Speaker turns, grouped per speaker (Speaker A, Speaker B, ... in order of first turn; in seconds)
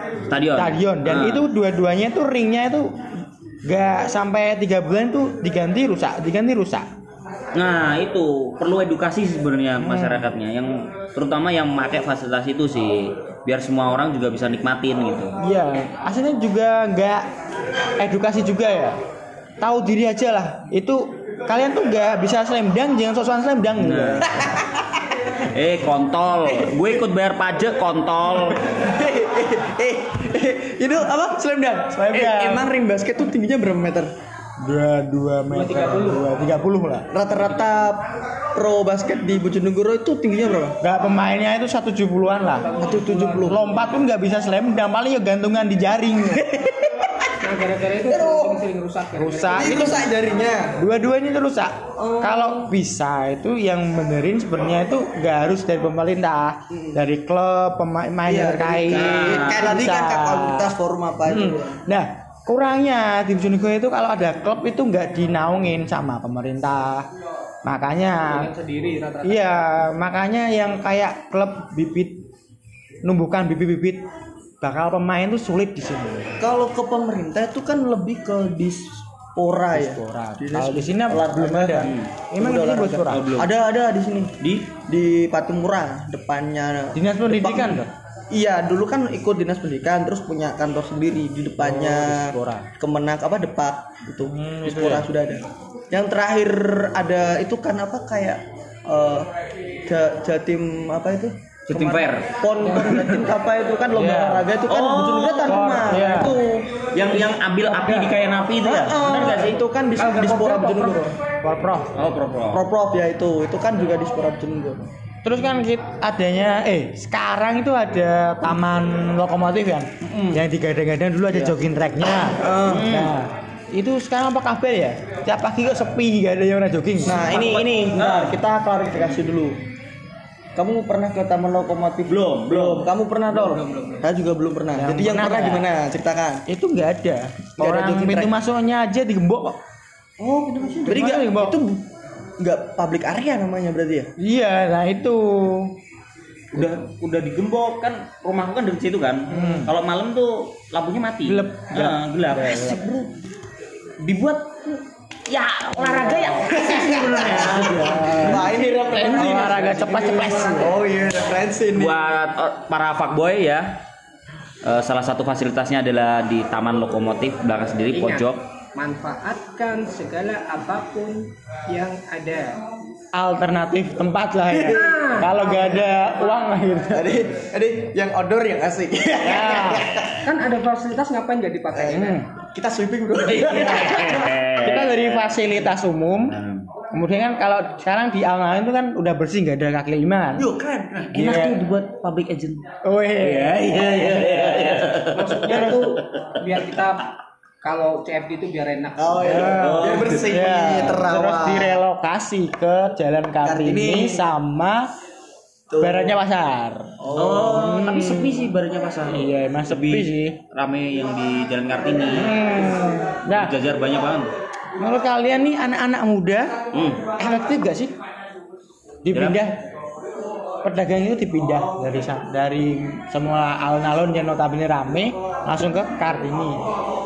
Speaker A: 0.3-1.5, 7.5-15.3, 23.8-24.4, 25.5-28.6, 58.9-59.7, 81.8-82.1, 83.1-83.5, 84.4-84.7, 101.7-102.3, 104.7-105.7, 106.9-109.6, 112.0-112.6, 120.1-120.4, 122.7-123.1, 127.1-128.4, 132.1-132.9, 146.5-153.1, 154.0-157.6, 161.8-163.7, 164.6-168.4, 183.2-185.4, 186.3-186.6, 191.1-192.6, 193.2-195.8, 199.6-200.2, 207.1-212.4, 213.3-214.3, 216.7-217.1, 219.1-219.4
Speaker B: 0.6-3.0, 3.6-6.9, 9.8-10.3, 15.4-17.3, 18.0-19.0, 19.6-24.5, 31.9-32.7, 34.6-37.1, 40.8-47.2, 49.1-50.1, 50.8-60.7, 61.3-67.1, 67.6-68.5, 69.2-72.2, 73.0-74.0, 74.6-76.4, 79.7-83.2, 87.0-87.9, 91.6-92.7, 94.3-95.1, 101.8-102.0, 102.6-103.3, 103.9-104.5, 105.4-106.4, 107.7-108.2, 109.1-111.9, 115.2-127.2, 134.8-135.7, 136.5-139.6, 140.8-141.6, 144.2-145.7, 149.3-149.7, 151.2-152.8, 155.8-160.8, 173.1-177.2, 179.2-179.9, 181.9-182.3, 183.6-190.5, 191.1-191.7, 192.8-195.9, 199.2-204.9, 205.8-206.9, 207.5-208.5, 209.1-210.4, 212.1-213.5, 214.8-216.5, 217.2-217.9, 219.1-219.6, 220.6-226.6
Speaker C: 24.2-25.0, 26.5-27.0, 28.5-34.1, 37.1-40.8, 42.8-43.6, 48.1-48.6, 49.5-50.8, 52.0-52.6, 56.7-57.0, 58.3-61.8, 76.4-99.3, 99.9-107.3, 108.6-111.1, 112.5-114.9, 122.4-123.0, 127.0-129.6, 130.6-136.4, 137.6-138.3, 140.2-141.8, 142.4-144.1, 156.5-162.0, 174.5-175.8, 176.9-180.2, 181.7-184.4, 190.4-191.1, 199.0-201.8, 203.4-204.2, 205.7-206.2, 207.0-207.8
Speaker D: 35.5-36.2, 42.4-44.0, 47.4-50.1, 68.3-69.7, 167.9-172.6, 174.6-176.1, 180.2-182.2, 195.1-197.1, 197.6-199.6